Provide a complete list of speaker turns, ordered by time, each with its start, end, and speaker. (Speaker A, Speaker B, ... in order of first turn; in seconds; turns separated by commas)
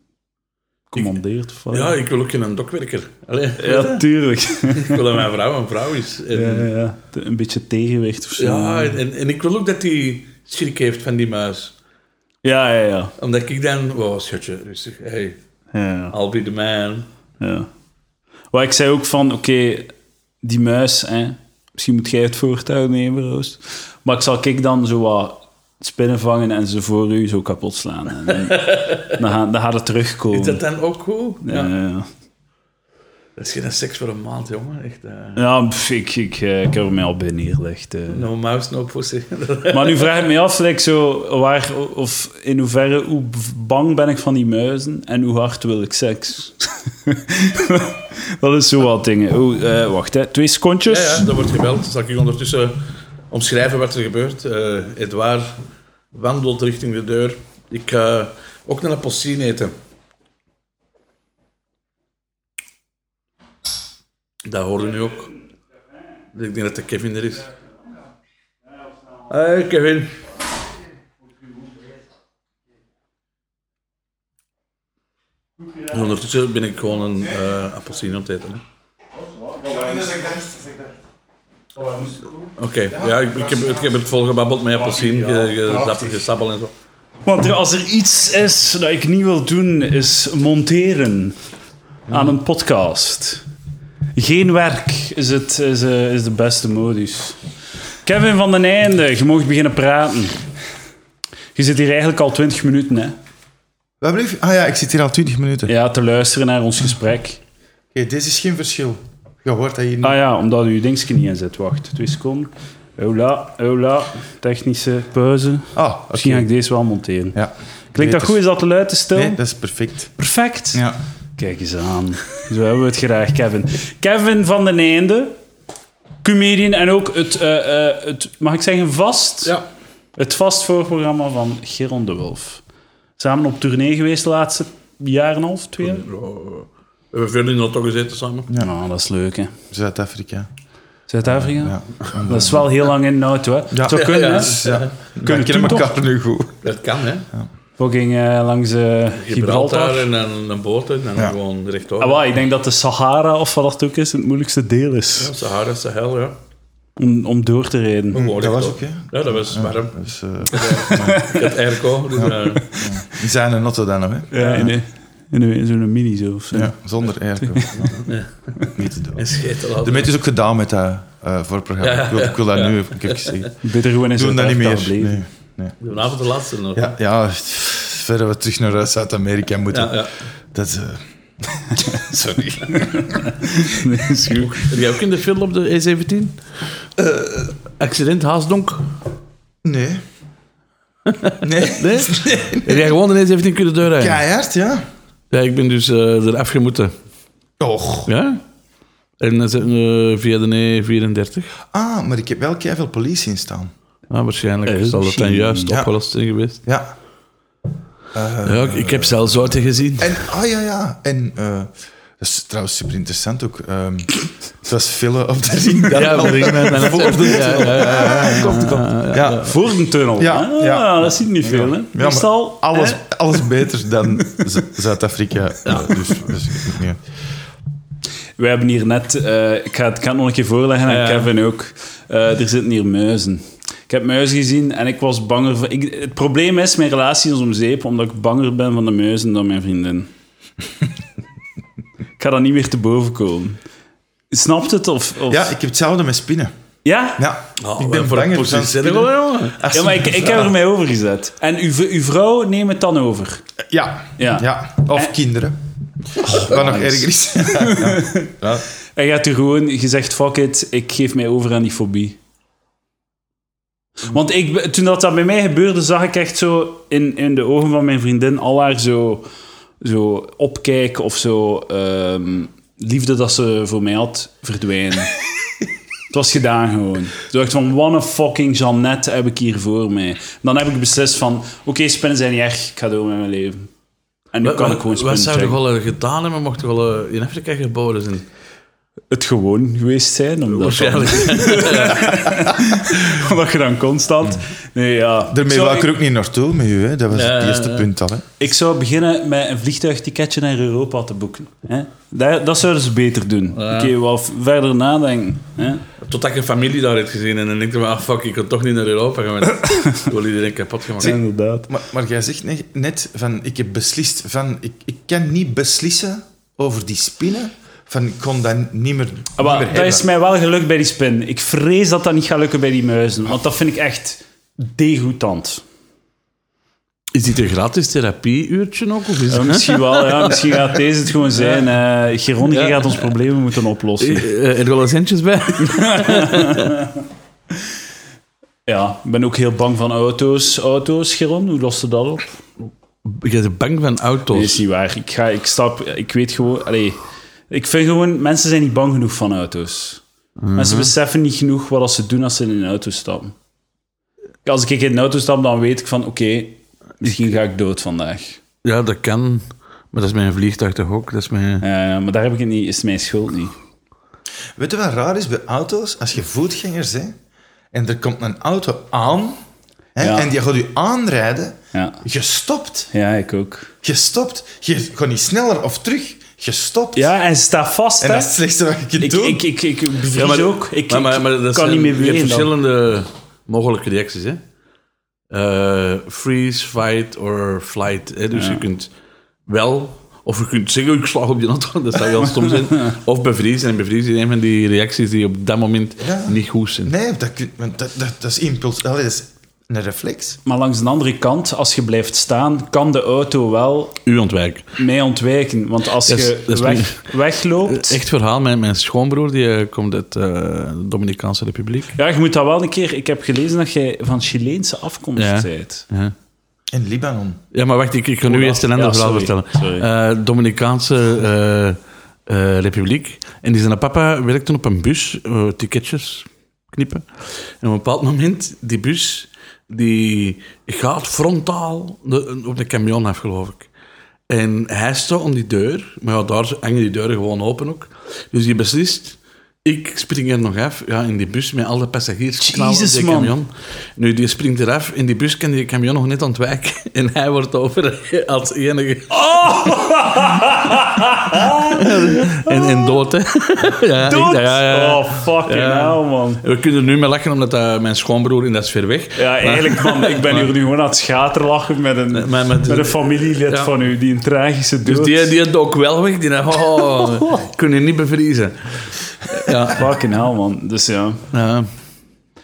Speaker A: 0.9-1.9, Speaker B: 1.7-4.1, Speaker A: 3.6-5.1, Speaker B: 4.7-6.7, Speaker A: 6.3-9.0, Speaker B: 8.4-11.7, Speaker A: 12.4-13.1, Speaker B: 13.2-15.4, Speaker A: 15.7-16.1, Speaker B: 16.1-17.1, Speaker A: 17.4-17.7, Speaker A: 18.5-30.6, Speaker B: 28.3-29.2, Speaker B: 30.3-31.7, Speaker A: 31.4-32.1, Speaker B: 33.4-35.4, Speaker A: 35.4-38.2, Speaker B: 38.1-40.1, Speaker A: 39.7-51.3, Speaker B: 50.9-52.8, Speaker B: 53.3-55.6, Speaker B: 56.1-59.7, Speaker B: 64.5-65.3, Speaker B: 66.3-67.5, Speaker B: 69.3-70.2, Speaker B: 75.9-78.6, Speaker C: 79.6-81.0, Speaker B: 82.6-86.7, Speaker A: 87.2-91.4, Speaker A: 92.1-93.4, Speaker A: 94.2-97.4, Speaker A: 98.0-100.5, Speaker A: 101.5-103.2, Speaker C: 104.0-105.7, Speaker A: 105.7-107.4, Speaker C: 107.9-110.2, Speaker A: 110.0-117.4, Speaker C: 115.7-116.5, Speaker C: 117.3-118.4, Speaker A: 117.9-119.4, Speaker C: 119.1-120.1, Speaker A: 120.2-120.8, Speaker A: 121.4-125.3, Speaker A: 126.2-129.6, Speaker A: 130.2-132.6, Speaker A: 133.2-136.0, Speaker B: 135.8-138.5, Speaker A: 138.6-139.5, Speaker C: 139.7-140.5, Speaker A: 141.1-145.9, Speaker C: 141.2-142.7, Speaker C: 143.7-146.6, Speaker B: 143.9-145.3, Speaker B: 146.6-147.3, Speaker A: 147.8-150.1, Speaker B: 149.2-152.2, Speaker A: 152.0-155.3, Speaker B: 155.2-156.4, Speaker A: 157.0-158.2, Speaker B: 158.1-162.7, Speaker C: 158.1-161.2, Speaker A: 160.8-161.4, Speaker C: 162.2-164.7, Speaker A: 162.5-162.9, Speaker A: 164.3-166.7, Speaker C: 166.5-168.0, Speaker A: 167.5-167.9, Speaker B: 167.9-170.1, Speaker C: 168.7-169.2, Speaker C: 169.8-173.5, Speaker B: 171.8-173.5, Speaker A: 173.6-175.2, Speaker C: 174.1-175.8, Speaker B: 175.8-176.9, Speaker C: 176.7-183.2, Speaker B: 179.7-180.1, Speaker A: 182.8-184.7, Speaker B: 184.5-186.4, Speaker B: 187.0-188.9, Speaker C: 189.6-190.0, Speaker B: 191.1-194.2, Speaker C: 191.4-192.9, Speaker C: 194.0-194.8, Speaker B: 195.3-196.9, Speaker C: 197.6-198.1, Speaker B: 198.1-198.4, Speaker B: 199.2-201.5, Speaker C: 201.7-203.7, Speaker B: 204.1-206.6, Speaker A: 204.7-205.8, Speaker C: 206.6-206.9, Speaker C: 208.1-219.5, Speaker B: 208.4-210.2, Speaker B: 215.9-219.6, Speaker A: 217.9-218.8, Speaker A: 219.3-223.0, Speaker C: 220.2-227.0, Speaker B: 225.7-226.0, Speaker A: 228.4-240.1, Speaker B: 230.9-231.3, Speaker A: 242.2-243.6, Speaker A: 244.3-245.5, Speaker C: 245.3-246.5, Speaker A: 246.8-247.2, Speaker C: 247.2-250.5, Speaker B: 247.6-249.6, Speaker A: 249.7-253.4, Speaker C: 253.7-255.6, Speaker A: 254.2-255.1, Speaker C: 256.1-258.6, Speaker A: 256.2-258.3, Speaker A: 258.9-262.2, Speaker A: 264.0-269.2, Speaker A: 269.8-275.1, Speaker A: 276.1-283.7, Speaker A: 284.3-285.6, Speaker B: 284.4-288.3, Speaker A: 289.1-295.9, Speaker B: 290.5-292.2, Speaker C: 295.3-298.2, Speaker B: 297.1-297.9, Speaker A: 298.4-305.8, Speaker B: 303.6-303.9, Speaker B: 306.0-311.1, Speaker A: 309.6-310.0, Speaker A: 311.0-311.7, Speaker C: 311.7-320.0, Speaker A: 319.4-325.6, Speaker B: 327.1-330.8, Speaker A: 329.3-334.3, Speaker B: 331.4-331.6, Speaker B: 332.4-333.1, Speaker B: 334.0-336.8, Speaker A: 335.6-336.9, Speaker A: 338.7-342.4, Speaker B: 343.0-344.6, Speaker A: 344.3-350.0, Speaker B: 350.4-350.9, Speaker A: 350.6-353.3, Speaker A: 354.4-358.4, Speaker B: 358.6-361.6, Speaker A: 361.6-363.6, Speaker C: 364.6-367.1, Speaker C: 367.7-369.4, Speaker C: 369.9-372.9, Speaker A: 370.0-370.3, Speaker A: 371.7-372.0, Speaker A: 372.9-373.7, Speaker C: 373.8-377.1, Speaker A: 376.9-378.3, Speaker C: 378.0-379.4, Speaker A: 379.0-382.5, Speaker B: 380.1-384.4, Speaker B: 385.3-388.9, Speaker A: 388.3-388.6, Speaker B: 389.5-396.9, Speaker C: 396.0-400.4, Speaker A: 400.4-404.0, Speaker B: 404.1-404.7, Speaker A: 404.8-408.0, Speaker B: 406.1-407.1, Speaker B: 407.7-411.9, Speaker A: 411.9-415.9, Speaker B: 415.2-416.1, Speaker C: 416.7-417.4, Speaker B: 417.5-433.7, Speaker A: 418.2-419.9, Speaker B: 434.3-449.2, Speaker A: 442.4-443.4, Speaker A: 449.1-452.9, Speaker B: 451.5-460.5, Speaker A: 454.1-456.4, Speaker A: 459.1-465.3, Speaker B: 462.1-463.7, Speaker B: 464.9-469.9, Speaker A: 469.6-471.2, Speaker B: 471.3-471.7